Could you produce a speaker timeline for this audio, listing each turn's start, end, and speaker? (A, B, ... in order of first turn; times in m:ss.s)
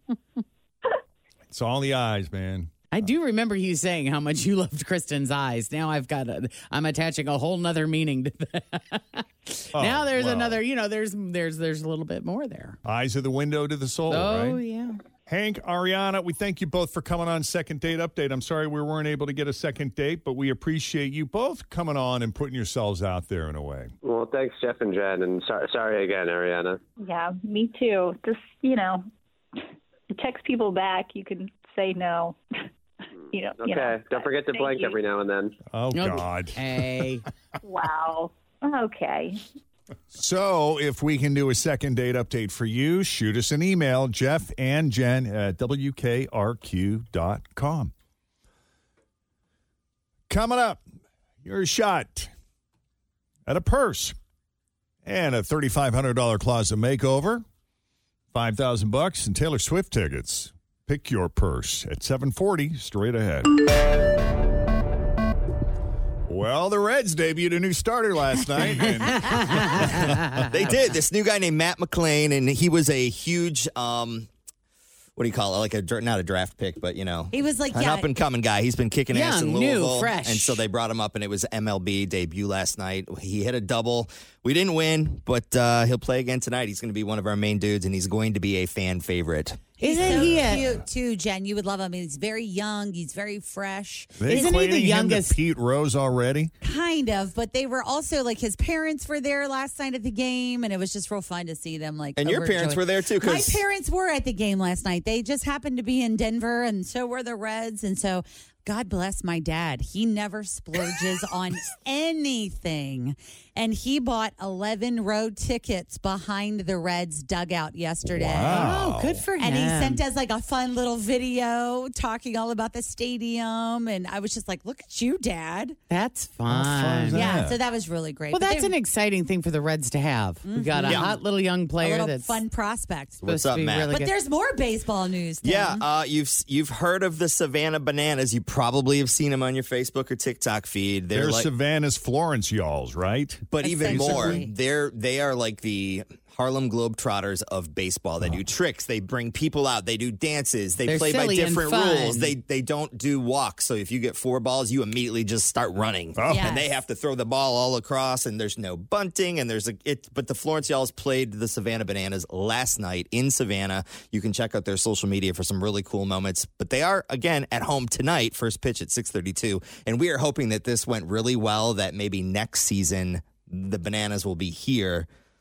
0:01.5-0:03.1 A
0:02.9-0:12.8 B
0:09.7-0:10.6 A
0:12.8-0:14.6 A
0:14.1-0:15.0 B
0:15.3-0:23.9 A
0:24.0-0:26.8 C
0:27.0-0:29.1 D
0:30.1-0:32.4 D
0:33.3-0:35.0 D
0:33.6-0:35.6 C
0:35.7-0:37.0 A
0:35.9-0:37.3 B
0:37.6-0:39.4 D
0:40.1-0:47.9 A
0:50.3-0:50.8 A
0:51.4-0:52.3 A
0:53.5-0:54.2 A
0:55.0-0:57.4 A
0:58.3-1:03.6 A
1:06.3-1:10.7 A
1:08.8-1:09.1 E
1:09.1-1:10.4 B
1:10.5-1:14.3 F
1:15.2-1:29.8 F
1:17.3-1:18.1 E
1:19.1-1:20.6 B
1:29.8-1:30.7 B
1:29.8-1:34.6 E
1:30.0-1:30.8 A
1:34.2-1:36.5 A
1:34.3-1:35.4 B
1:36.6-1:58.8 E
1:42.2-1:43.6 F
1:58.0-1:59.2 A
1:58.5-2:00.0 B
1:59.4-2:05.8 E
2:05.9-2:07.2 B
2:06.5-2:07.6 A
2:07.1-2:08.7 E
2:08.3-2:12.4 B
2:10.5-2:11.2 E
2:10.8-2:11.1 F
2:11.8-2:13.2 E
2:13.2-2:13.9 F
2:13.2-2:14.1 B
2:13.9-2:15.8 E
2:15.4-2:21.5 F
2:21.1-2:24.4 A
2:23.5-2:55.1 F
2:23.6-2:24.5 E
2:30.9-2:32.4 B
2:36.2-2:36.5 A
2:36.2-2:36.7 E